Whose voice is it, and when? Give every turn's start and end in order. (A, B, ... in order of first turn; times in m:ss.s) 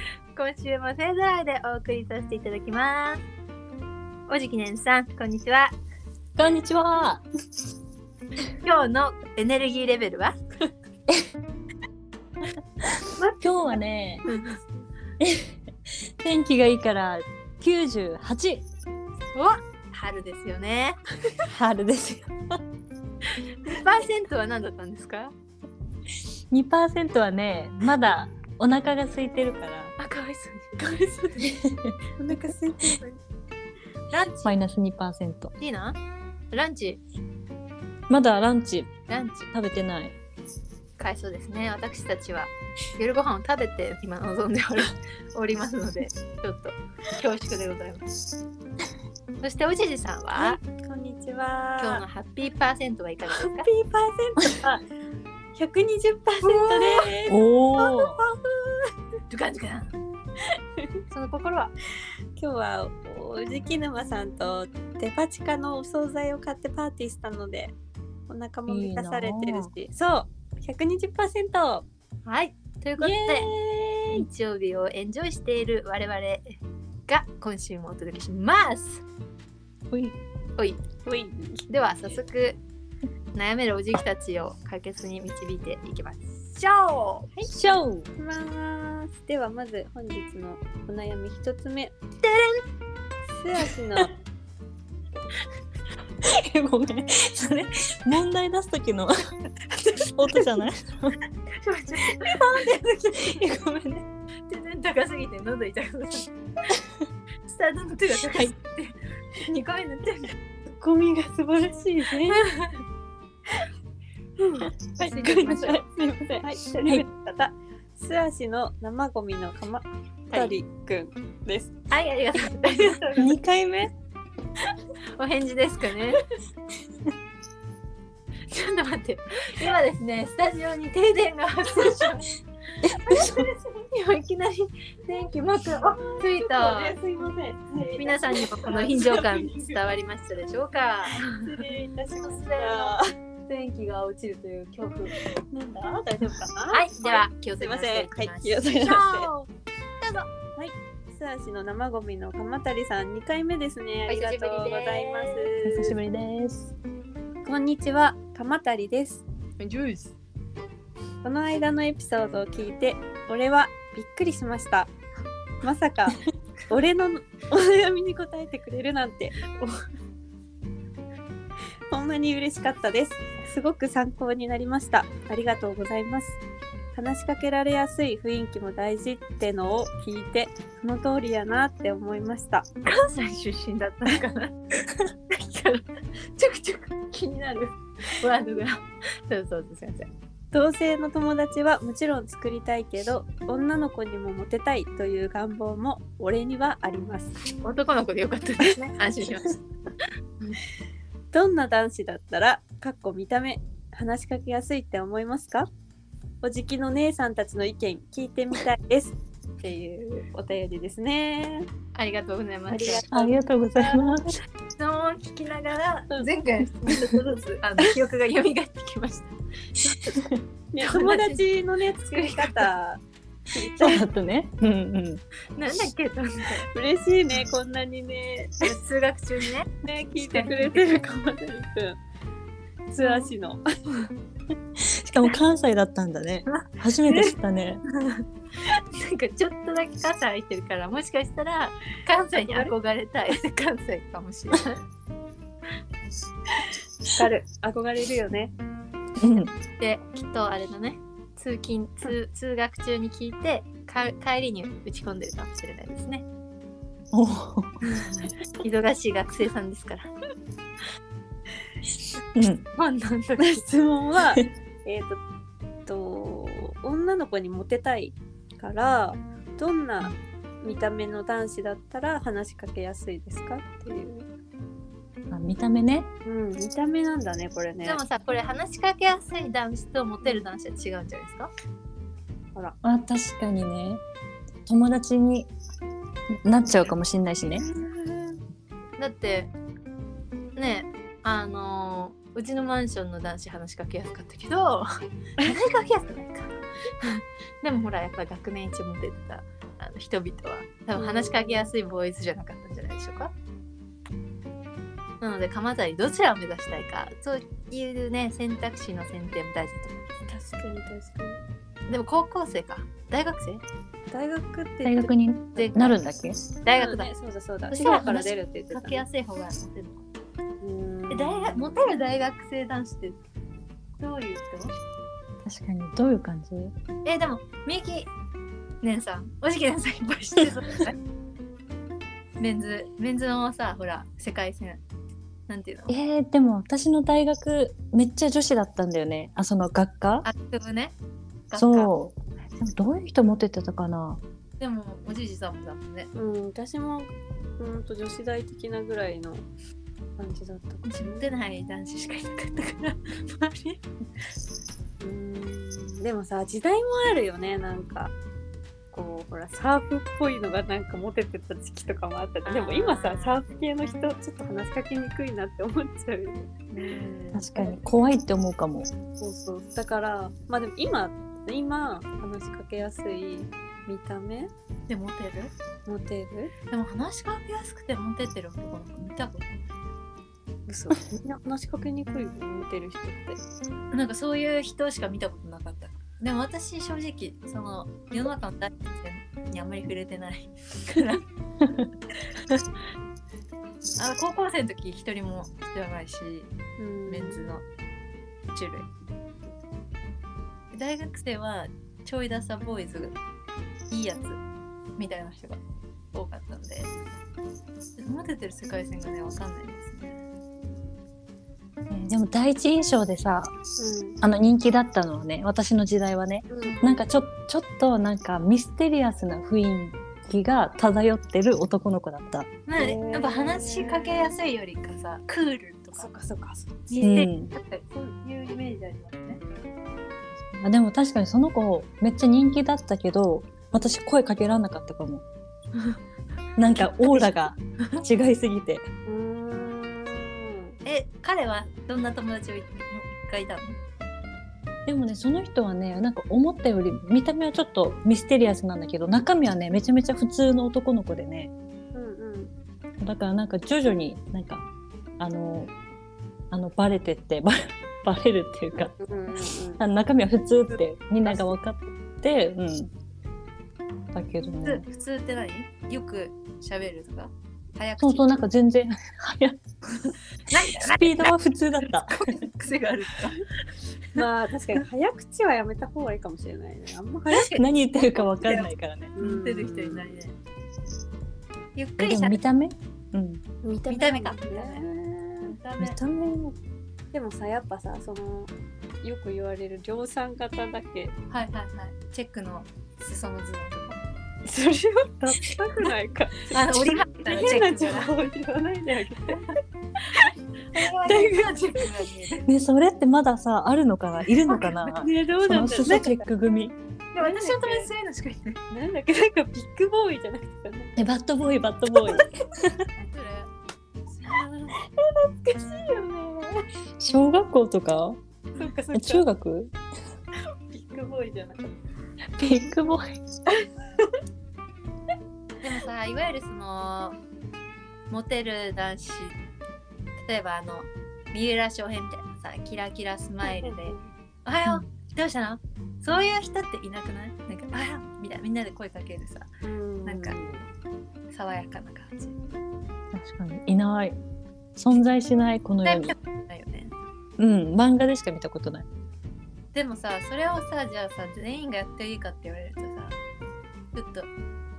0:00.3-0:03.2 A
0:04.3-0:05.7 A
0:06.4-0:07.2 B
0:08.6-0:10.4 A
0:12.8-0:14.2 B
0:13.2-0:14.4 C
0:14.2-0:14.6 A
0:15.2-0:15.6 B
0:16.2-0:18.6 B
0:19.3-0:21.0 A
0:21.4-0:22.3 B
0:23.6-0:25.3 A
0:26.5-0:29.9 B
0:30.0-0:31.5 A
0:31.4-0:32.4 B
0:32.2-0:33.2 C
0:34.1-0:34.6 A
0:34.4-0:35.5 B
0:35.6-0:36.0 A
0:36.5-0:37.0 A
0:38.1-0:38.9 B
0:39.1-0:39.5 A
0:39.5-0:40.2 B
0:41.0-0:48.1 A
0:49.4-0:50.6 A
0:50.3-0:52.0 C
0:51.8-0:53.7 A
0:53.2-0:54.8 C
0:55.6-0:58.9 C
0:56.4-0:57.1 A
0:57.3-0:58.2 B
0:59.3-0:59.9 A
1:01.1-1:01.7 A
1:02.4-1:07.7 C
1:08.3-1:11.8 C
1:08.7-1:09.7 B
1:12.2-1:13.5 A
1:13.0-1:14.2 C
1:14.1-1:19.0 A
1:19.9-1:20.2 B
1:21.0-1:21.7 C
1:21.7-1:22.6 A
1:23.3-1:27.3 A
1:27.5-1:28.1 B
1:28.1-1:31.9 C
1:32.2-1:32.6 A
1:33.3-1:34.1 C
1:36.2-1:39.1 B
1:39.8-1:40.1 A
1:40.1-1:41.2 B
1:41.6-1:43.4 A
1:42.2-1:44.0 B
1:44.5-1:46.3 A
1:47.4-1:50.4 A
1:50.8-1:52.5 C
1:52.3-1:52.8 A
1:54.4-2:01.8 C
1:54.5-1:55.8 A
2:01.9-2:03.0 A
2:02.4-2:03.3 C
2:03.1-2:03.9 B
2:05.2-2:06.2 A
2:08.5-2:12.3 A
2:12.8-2:16.9 A
2:12.8-2:13.4 B
2:15.7-2:19.9 C
2:18.0-2:21.5 A
2:21.2-2:23.1 C
2:22.2-2:25.2 A
2:25.2-2:29.3 C
2:26.7-2:30.3 A
2:30.6-2:36.0 C
2:34.1-2:35.5 A
2:35.6-2:36.7 B
2:37.4-2:39.2 C
2:39.6-2:40.1 A
2:41.2-2:44.9 C
2:45.6-2:49.4 C
2:49.6-2:49.8 A
2:51.9-2:56.4 C
2:56.9-3:02.6 C
3:02.8-3:04.5 A
3:05.3-3:05.8 A
3:06.4-3:10.1 A
3:10.5-3:17.4 C
3:17.6-3:19.6 A
3:21.3-3:25.7 C
3:26.4-3:31.7 C
3:31.9-3:33.0 A
3:32.7-3:34.2 C
3:33.1-3:34.4 B
3:34.8-3:40.2 A
3:40.1-3:40.4 B
3:40.7-3:44.0 C
3:40.8-3:41.4 A
3:42.0-3:42.7 A
3:43.8-3:45.2 B
3:45.6-3:46.7 A
3:46.7-3:48.7 C
3:48.6-3:50.8 A
3:49.8-3:52.0 C
3:52.9-3:53.7 C
3:53.0-3:53.3 A
3:54.8-3:57.8 B
3:56.5-3:57.2 A
3:57.9-4:04.8 A
4:02.4-4:02.7 C
4:07.0-4:08.5 C
4:09.2-4:09.5 B
4:09.8-4:16.2 A
4:17.1-4:17.8 B
4:17.8-4:20.1 A
4:22.3-4:22.6 B
4:22.8-4:23.6 A
4:23.4-4:25.2 C
4:25.8-4:34.3 C
4:35.3-4:36.1 B
4:36.2-4:38.0 C
4:37.8-4:41.5 A
4:42.8-4:44.0 B
4:44.6-4:45.5 B
4:46.3-4:47.6 B
4:47.6-4:48.4 C
4:49.0-4:49.5 A
4:50.6-5:03.3 A
5:01.0-5:01.7 C
5:05.2-5:10.1 A
5:10.3-5:11.4 C
5:11.9-5:13.6 A
5:14.1-5:15.1 C
5:14.8-5:16.4 B
5:15.6-5:16.0 A
5:16.6-5:17.1 A
5:16.8-5:19.0 C
5:17.7-5:20.0 A
5:20.6-5:22.0 C
5:21.1-5:23.2 A
5:24.0-5:24.7 A
5:25.4-5:26.7 B
5:27.0-5:28.1 A
5:28.8-5:31.0 A
5:32.4-5:34.8 A
5:35.5-5:35.9 A
5:35.9-5:40.3 B
5:40.2-5:40.9 A
5:41.5-5:41.9 A
5:41.6-5:44.2 B
5:44.6-5:46.1 A
5:46.1-5:49.4 C
5:50.2-5:51.2 C
5:50.8-5:53.8 A
5:55.0-5:58.1 C
5:58.9-6:06.5 C
6:02.4-6:03.4 A
6:06.7-6:07.4 A
6:07.3-6:08.9 B
6:09.2-6:14.5 C
6:14.9-6:15.5 A
6:15.8-6:16.5 C
6:16.7-6:19.5 A
6:20.7-6:23.4 C
6:23.9-6:31.2 A
6:31.6-6:31.9 B
6:34.0-6:36.5 A
6:36.8-6:37.6 C
6:37.0-6:37.6 A
6:38.5-6:38.9 A
6:40.7-6:43.2 A
6:43.9-6:44.4 A
6:45.0-6:45.6 A
6:46.1-6:46.9 A
6:48.0-6:50.2 A
6:51.9-6:53.5 B
6:53.8-6:54.2 C
6:54.2-7:02.5 B
6:56.5-6:56.9 C
6:56.6-6:56.9 A
7:02.7-7:06.1 A
7:02.8-7:04.3 C
7:06.0-7:07.1 C
7:06.9-7:09.4 A
7:07.0-7:07.5 B
7:10.5-7:15.2 B
7:13.7-7:14.0 C
7:16.6-7:18.9 B
7:19.0-7:20.8 C
7:20.8-7:23.8 A
7:24.8-7:31.5 B
7:31.9-7:32.5 C
7:33.0-7:34.6 B
7:35.2-7:35.7 B
7:36.5-7:42.9 B
7:38.8-7:39.8 C
7:41.2-7:41.6 C
7:44.1-7:44.8 B
7:44.6-7:48.4 A
7:48.0-7:50.1 B
7:50.5-7:53.5 A
7:50.7-7:52.3 B
7:54.2-7:57.5 C
7:57.3-8:00.3 A
7:57.5-7:59.1 B
7:59.2-8:00.2 C
8:01.8-8:02.4 A
8:02.0-8:03.4 B
8:03.6-8:05.5 C
8:03.9-8:04.8 A
8:05.4-8:06.0 A
8:05.8-8:06.6 B
8:07.1-8:08.5 C
8:09.0-8:11.1 C
8:11.3-8:14.0 A
8:14.4-8:19.5 C
8:16.5-8:18.1 A
8:20.0-8:22.4 A
8:21.0-8:21.9 C
8:22.4-8:26.8 B
8:24.4-8:26.2 C
8:27.1-8:28.6 A
8:27.2-8:27.9 C
8:28.7-8:30.9 C
8:31.0-8:32.8 B
8:33.0-8:33.5 A
8:34.2-8:36.6 C
8:37.0-8:38.2 B
8:38.6-8:39.2 C
8:38.9-8:39.7 B
8:40.7-8:41.7 C
8:42.4-8:43.2 B
8:43.6-8:44.1 C
8:45.6-8:47.2 A
8:48.1-8:49.4 A
8:50.2-8:59.5 A
8:53.4-8:54.1 C
8:59.6-9:00.4 C
9:00.0-9:00.6 A
9:01.3-9:02.3 A
9:03.1-9:04.2 B
9:04.8-9:06.1 B
9:05.8-9:06.9 A
9:07.4-9:08.8 B
9:09.7-9:13.2 A
9:13.9-9:14.3 A